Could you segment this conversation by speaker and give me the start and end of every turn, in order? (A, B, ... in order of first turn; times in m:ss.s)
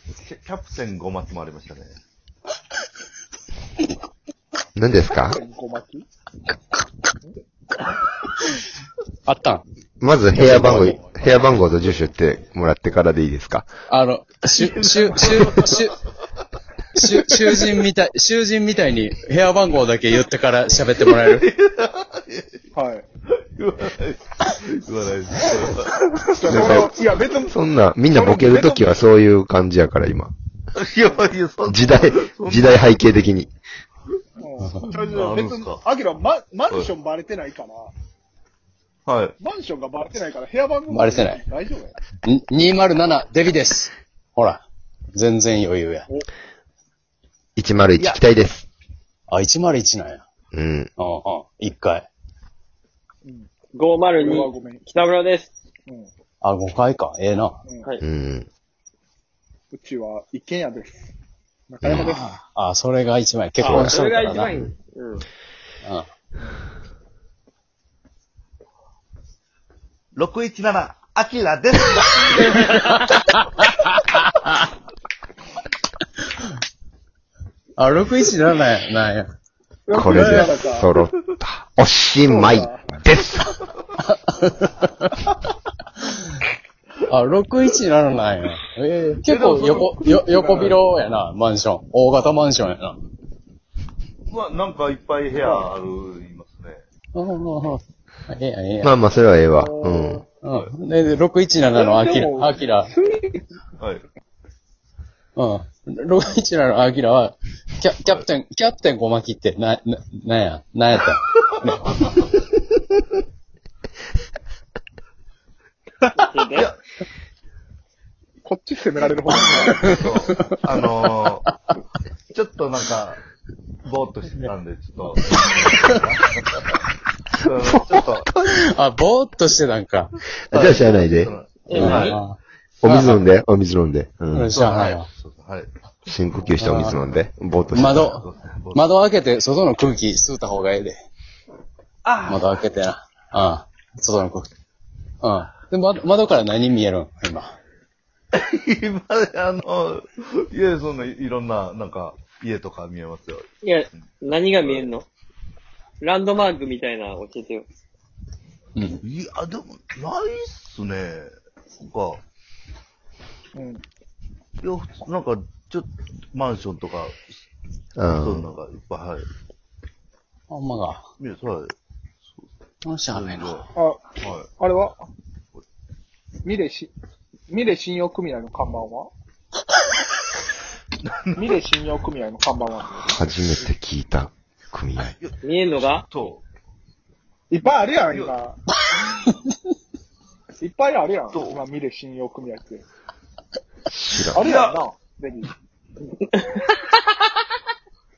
0:00.2-0:02.0 A
0:04.8-0:05.4 B
0:05.2-0:06.0 C
0:09.3-0:09.6 D
0:10.0-0:13.7 B
0:10.4-0:11.0 D
0:13.9-0:16.0 D
0:14.5-0:15.7 A
0:17.0-0:21.4 D
0:21.1-0:22.7 A
0:22.7-0:23.0 C
0:23.3-0:26.1 A
0:26.4-0:27.6 C
0:26.4-0:30.3 B
0:28.1-0:29.0 C
0:30.8-0:32.9 A
0:31.7-0:33.5 B
0:34.4-0:37.9 C
0:34.8-0:35.8 A
0:39.1-0:39.4 A
0:39.4-0:42.0 C
0:40.9-0:41.4 D
0:42.2-0:44.6 D
0:45.1-0:46.1 D
0:47.6-0:48.7 B
0:49.3-0:50.2 D
0:50.5-0:50.9 B
0:51.0-0:52.1 D
0:53.7-0:55.5 E
0:54.2-0:54.8 C
0:56.4-0:57.6 D
0:57.7-0:57.9 C
0:58.0-0:58.5 B
0:59.7-1:01.1 C
1:01.7-1:02.3 C
1:01.8-1:02.2 B
1:01.9-1:04.5 D
1:03.6-1:03.9 B
1:03.6-1:05.3 E
1:10.1-1:12.8 A
1:12.5-1:12.9 E
1:12.7-1:14.5 D
1:17.8-1:19.3 D
1:19.9-1:20.9 C
1:19.9-1:23.6 B
1:22.2-1:22.8 C
1:24.0-1:25.1 D
1:27.1-1:33.0 D
1:29.3-1:30.8 A
1:30.4-1:30.7 C
1:34.3-1:36.8 A
1:37.1-1:38.9 D
1:38.8-1:40.2 B
1:39.6-1:40.3 C
1:40.4-1:42.9 D
1:41.8-1:43.4 C
1:43.8-1:44.1 A
1:45.4-1:52.0 D
1:56.2-1:56.7 E
1:56.5-1:56.8 A
1:58.4-2:00.0 C
1:59.3-2:00.6 D
1:59.7-2:01.4 A
2:02.3-2:03.2 A
2:03.8-2:06.8 A
2:05.6-2:06.0 D
2:07.4-2:08.3 A
2:08.5-2:10.1 D
2:10.5-2:12.1 B
2:10.5-2:12.2 A
2:11.7-2:12.2 E
2:11.7-2:13.2 D
2:12.8-2:14.5 B
2:14.3-2:15.1 D
2:14.6-2:15.7 A
2:16.1-2:18.1 B
2:16.6-2:17.0 D
2:17.7-2:21.0 D
2:17.9-2:18.9 A
2:22.0-2:22.4 E
2:22.3-2:24.5 D
2:25.2-2:27.5 D
2:28.3-2:33.5 A
2:33.6-2:35.1 E
2:34.6-2:34.9 A
2:36.0-2:37.7 E
2:39.0-2:42.2 A
2:43.5-2:43.8 C
2:44.6-2:47.4 A
2:48.0-2:48.5 B
2:48.1-2:49.3 A
2:50.5-2:51.1 D
2:51.2-2:51.7 A
2:52.8-2:53.7 D
2:53.1-2:53.7 A
2:53.8-2:55.0 C
2:54.2-2:54.5 A
2:56.4-2:56.9 C
2:57.5-2:59.1 C
3:01.0-3:01.6 A
3:01.4-3:03.1 C
3:03.1-3:05.1 B
3:05.1-3:06.4 A
3:05.4-3:06.1 E
3:07.5-3:08.6 C
3:08.0-3:08.4 A
3:10.6-3:12.8 C
3:11.3-3:11.6 A
3:13.9-3:14.4 B
3:14.3-3:15.5 C
3:14.4-3:14.8 A
3:16.3-3:17.0 E